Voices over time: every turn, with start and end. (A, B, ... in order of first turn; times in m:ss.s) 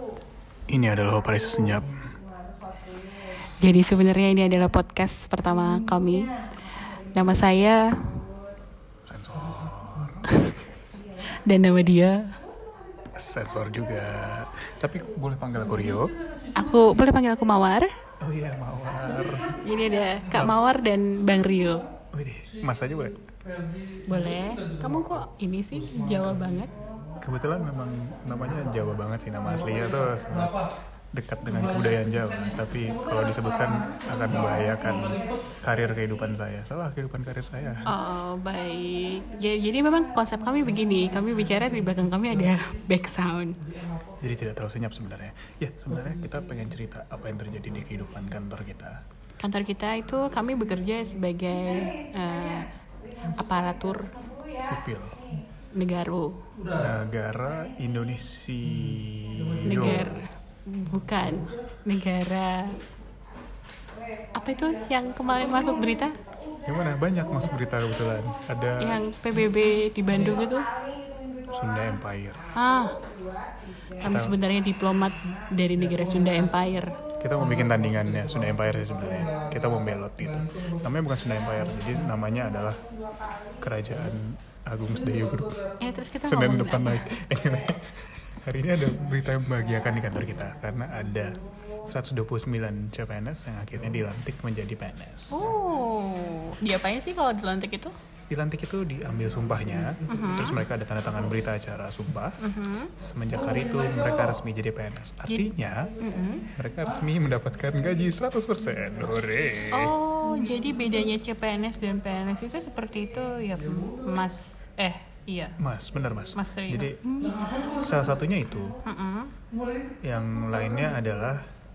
0:00.7-0:02.2 A
0:03.6-0:06.3 B
0:07.1-0:07.8 B
0:09.0-0:10.4 A
0:10.3-0:10.6 B
0:11.3-0:12.4 B
0:13.2-0:16.2 A
0:16.5-0:17.9 B
0:18.2-0:19.6 A
0:19.6-0:21.9 B
0:22.1-0:23.2 A
0:24.1-0:26.7 B
0:27.2-0:30.6 A
0:31.1-0:37.9 A
0:37.9-0:43.6 B
0:44.2-0:49.0 A
0:49.4-0:54.3 B
0:54.6-0:55.2 A
0:55.7-0:56.4 B
0:56.7-1:00.2 A
0:59.6-1:02.8 B
1:04.3-1:06.2 B
1:06.6-1:09.0 A
1:08.8-1:10.7 B
1:11.5-1:12.4 A
1:12.6-1:13.0 B
1:14.0-1:17.0 B
1:14.0-1:14.3 A
1:17.2-1:22.8 A
1:23.6-1:25.6 A
1:25.8-1:27.2 B
1:26.3-1:35.5 A
1:35.3-1:37.9 B
1:38.3-1:42.4 A
1:40.1-1:40.6 B
1:42.4-1:42.9 B
1:43.0-1:45.9 A
1:45.3-1:46.5 B
1:46.5-1:50.0 A
1:49.7-1:55.6 B
1:55.6-1:58.8 A
1:56.4-1:57.6 B
1:58.8-1:59.3 B
2:00.0-2:01.4 A